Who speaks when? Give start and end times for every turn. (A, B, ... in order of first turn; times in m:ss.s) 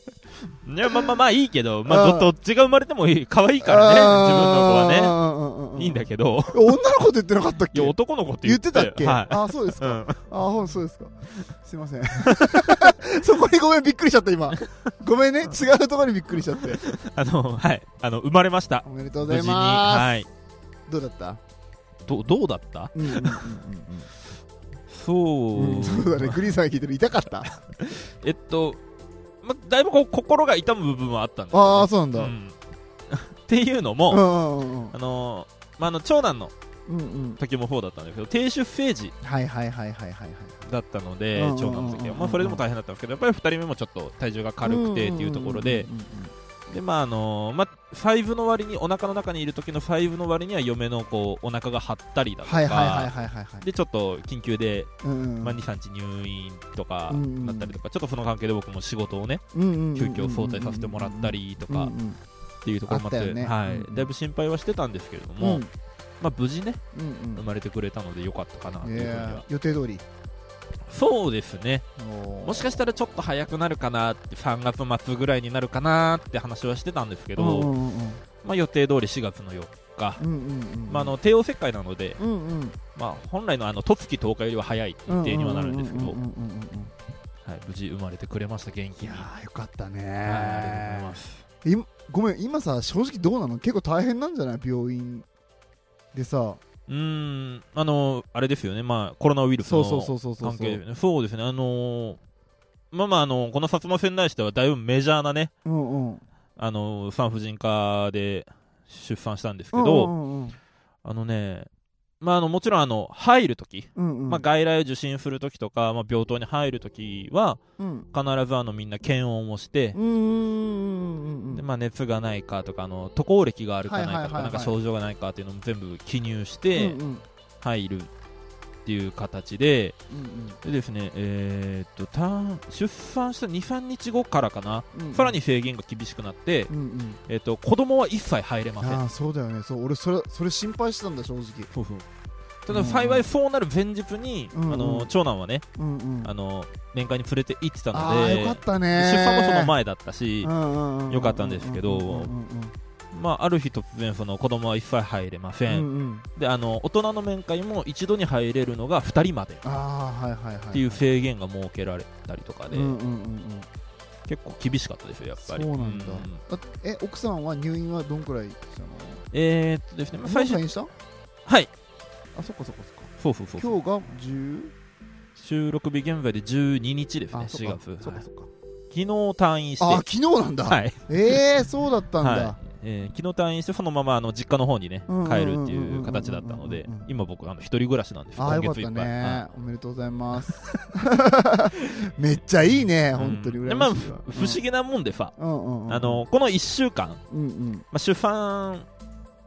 0:00.6-0:05.2 A
0:01.9-0:02.3 B
0:03.6-0:16.8 B
0:05.8-0:06.7 A
0:07.7-0:10.2 A
0:16.7-0:20.3 A
0:18.8-0:20.1 B
0:20.9-0:21.4 B
0:22.1-0:23.5 A
0:23.0-0:24.1 B
0:24.9-0:26.4 A
0:25.6-0:27.5 B
0:27.8-0:28.8 A
0:29.4-0:32.6 A
0:31.5-0:32.3 B
0:33.1-0:34.2 A
0:34.1-0:35.0 B
0:34.9-0:36.5 A
0:36.9-0:37.4 B
0:37.4-0:39.1 A
0:39.2-0:40.6 B
0:40.7-0:45.9 A
0:41.4-0:42.6 B
0:44.6-0:46.3 B
0:46.7-0:53.1 A
0:52.4-0:53.7 B
0:53.6-0:54.9 A
0:55.0-0:55.6 B
0:55.4-0:59.4 A
0:57.1-0:57.8 B
0:59.5-1:02.2 B
1:00.0-1:01.9 A
1:02.6-1:05.6 A
1:02.9-1:04.1 B
1:05.4-1:05.7 B
1:06.2-1:06.8 A
1:07.0-1:07.4 B
1:07.4-1:09.4 A
1:08.8-1:10.0 B
1:10.9-1:11.9 A
1:12.0-1:12.8 B
1:12.4-1:17.7 A
1:17.4-1:18.2 B
1:18.4-1:20.2 A
1:20.2-1:21.1 B
1:20.9-1:22.2 A
1:22.2-1:22.8 B
1:23.0-1:26.2 A
1:25.1-1:26.9 B
1:27.4-1:29.3 A
1:29.0-1:35.3 B
1:30.3-1:31.4 A
1:36.1-1:36.6 B
1:36.9-1:42.2 A
1:39.6-1:40.8 B
1:42.9-1:45.5 A
1:45.6-1:46.2 B
1:46.6-1:50.1 A
1:49.7-1:50.6 B
1:51.0-1:51.7 A
1:52.2-1:57.6 A
1:54.0-1:54.4 B
1:57.8-1:58.1 B
1:58.1-2:00.0 A
2:00.0-2:01.6 B
2:01.6-2:07.0 A
2:03.9-2:04.8 B
2:06.8-2:07.2 B
2:07.6-2:08.1 A
2:08.9-2:10.0 A
2:10.1-2:10.6 B
2:10.6-2:16.7 A
2:14.9-2:15.4 B
2:16.7-2:17.2 B
2:17.3-2:19.0 A
2:18.8-2:21.7 B
2:21.7-2:22.1 A
2:22.7-2:25.7 A
2:22.7-2:23.2 B
2:24.5-2:25.1 B
2:25.8-2:26.3 B
2:26.2-2:30.5 A
2:27.9-2:29.7 B
2:30.4-2:32.7 B
2:31.1-2:32.3 A
2:33.1-2:39.6 A
2:35.7-2:36.3 B
2:39.6-2:41.0 B
2:40.7-2:43.0 A
2:42.7-2:43.7 B
2:44.3-2:46.4 A
2:45.4-2:49.2 B
2:49.3-2:50.6 A
2:50.3-2:50.9 B
2:52.4-2:54.7 B
2:53.2-2:53.8 A
2:55.4-2:58.2 A
2:57.3-2:58.5 B
2:58.9-3:00.0 A
2:59.8-3:02.6 B
3:00.7-3:01.4 A
3:02.2-3:09.4 A
3:05.1-3:07.1 B
3:08.4-3:14.6 B
3:10.4-3:10.8 A
3:13.1-3:15.4 A
3:15.4-3:16.2 B
3:15.9-3:17.2 A
3:17.3-3:17.8 B
3:17.9-3:18.9 A